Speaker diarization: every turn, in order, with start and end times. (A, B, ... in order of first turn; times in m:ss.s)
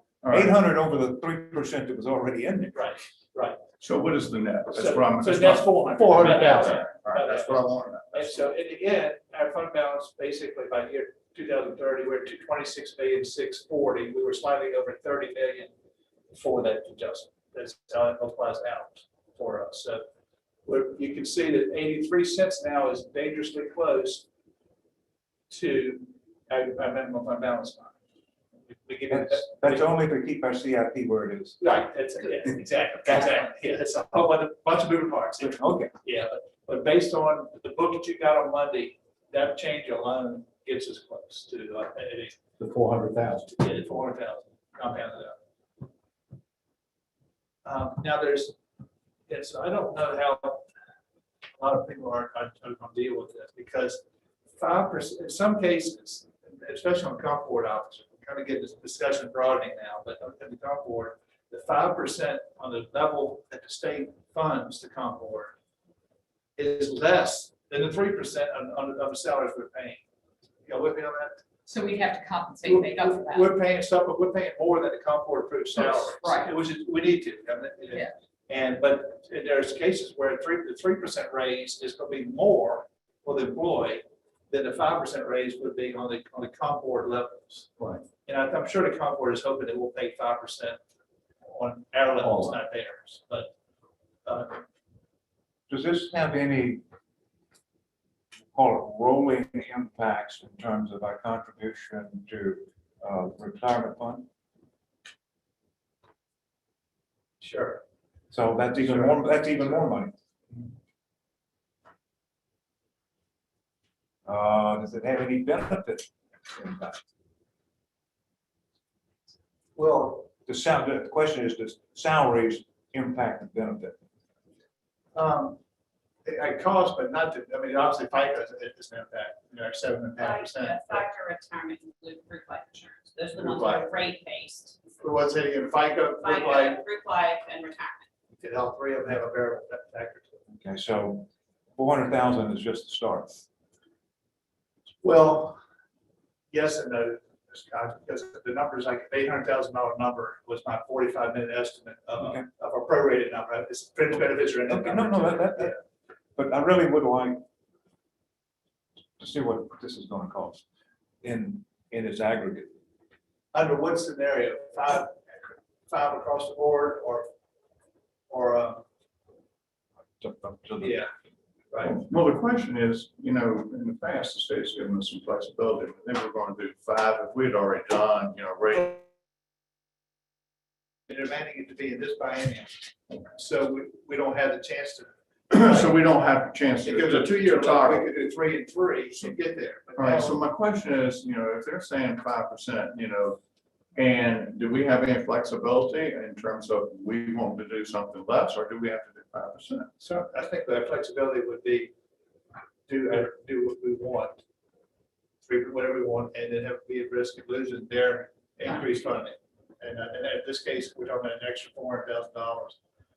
0:00.2-0:00.6 A
0:00.3-0:02.8 B
0:02.7-0:03.6 C
0:03.8-0:08.4 A
0:04.7-0:15.7 C
0:06.0-0:06.8 D
0:16.3-0:20.0 C
0:20.7-0:24.3 C
0:25.5-0:28.0 C
0:28.7-0:29.9 C
0:29.1-0:31.6 B
0:31.6-0:42.4 C
0:35.4-0:35.9 B
0:42.6-0:43.5 D
0:43.5-0:45.4 C
0:47.6-0:48.6 C
0:49.3-0:50.6 C
0:51.6-0:54.0 C
0:54.5-1:05.6 C
1:06.6-1:10.0 C
1:10.7-1:11.4 C
1:11.7-1:13.5 E
1:12.6-1:27.7 C
1:15.8-1:16.5 E
1:27.8-1:28.0 D
1:28.2-1:30.8 C
1:31.5-1:33.5 C
1:32.2-1:32.5 D
1:34.2-1:34.6 C
1:35.7-1:36.8 B
1:38.5-1:44.3 B
1:47.4-1:47.8 C
1:48.3-1:50.1 B
1:48.8-1:49.6 C
1:54.2-1:57.0 B
1:59.8-2:00.2 C
2:00.2-2:04.0 B
2:05.2-2:05.6 C
2:06.2-2:11.0 C
2:10.2-2:14.8 E
2:13.4-2:13.9 C
2:15.0-2:16.8 C
2:16.2-2:18.0 E
2:18.4-2:20.4 C
2:20.5-2:23.5 B
2:25.0-2:25.6 C
2:26.5-2:35.8 C
2:32.2-2:32.5 B
2:34.7-2:35.8 B
2:36.4-2:37.4 B
2:39.2-2:40.6 B
2:41.2-2:42.7 B
2:43.5-2:47.3 C
2:48.3-2:48.8 C
2:50.2-2:51.0 B
2:50.8-2:51.1 C
2:51.7-2:52.0 C
2:51.8-2:59.0 A
3:01.1-3:05.1 C
3:05.5-3:08.1 A
3:05.7-3:05.9 C
3:06.8-3:10.4 C
3:10.0-3:13.4 A
3:14.0-3:19.9 A
3:20.0-3:21.9 C
3:22.9-3:24.4 C
3:25.4-3:32.8 C